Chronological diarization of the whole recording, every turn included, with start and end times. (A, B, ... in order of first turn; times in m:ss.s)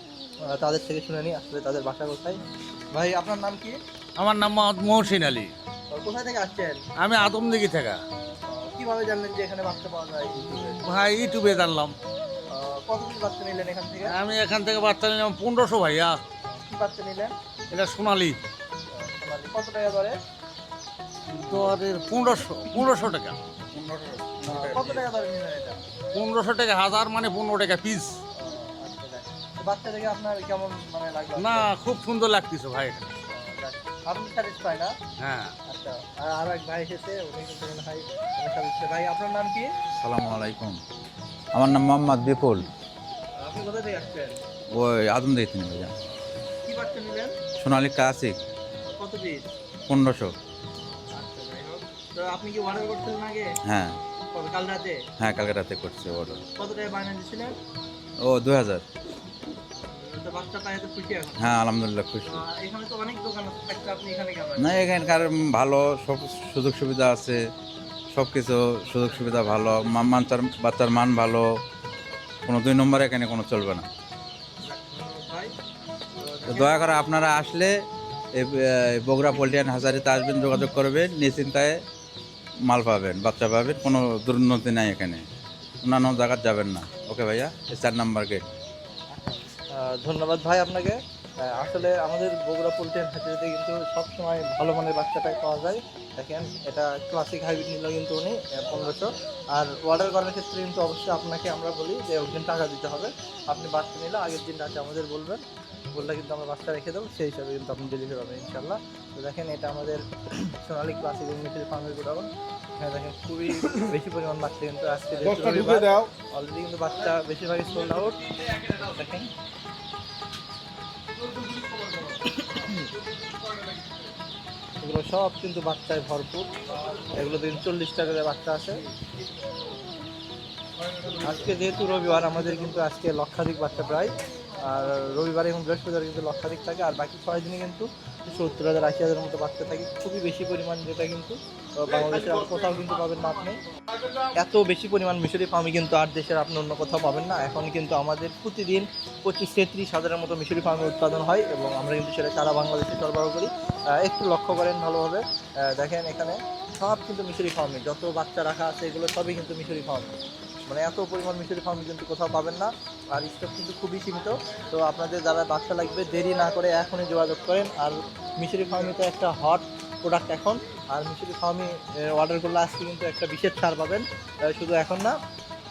0:00.5-0:02.4 A
0:02.9-0:03.7 A
0:04.2-0:05.5 B
0:05.9-0:06.8 A
0:07.0-0:08.0 B
0:08.5-0:10.8 A
0:10.8-0:12.0 B
0:12.5-0:14.1 A
0:14.1-0:16.2 B
0:16.5-0:17.3 A
0:17.7-0:18.4 B
0:18.9-0:20.2 A
0:21.5-0:23.4 B
0:23.7-0:25.0 C
0:24.4-0:25.8 A
0:26.1-0:28.1 B
0:28.4-0:31.7 A
0:31.4-0:33.1 B
0:33.3-0:34.9 A
0:35.2-0:35.5 B
0:35.7-0:39.7 A
0:40.0-0:40.8 C
0:41.5-0:42.7 C
0:43.4-0:44.4 A
0:44.7-0:45.9 C
0:46.6-0:47.4 A
0:47.6-0:48.4 C
0:48.9-0:49.4 A
0:49.9-0:50.3 C
0:51.1-0:53.5 A
0:53.6-0:54.0 C
0:54.3-0:55.0 A
0:55.2-0:56.4 C
0:56.6-0:57.6 A
0:58.2-0:58.8 C
0:59.8-1:01.5 A
1:01.4-1:02.4 C
1:02.2-1:04.9 A
1:04.6-1:07.4 C
1:08.1-1:11.4 C
1:09.2-1:09.8 A
1:12.4-1:13.9 C
1:14.6-1:15.5 A
1:16.2-1:17.0 A
1:16.5-1:17.7 C
1:18.3-1:21.8 C
1:22.7-1:25.2 C
1:25.8-1:28.4 C
1:29.1-1:45.4 A
1:45.9-1:59.3 A
2:02.0-2:02.9 A
2:04.8-2:08.8 A
2:11.1-2:23.6 A
2:24.4-2:40.1 A
2:40.7-2:55.2 A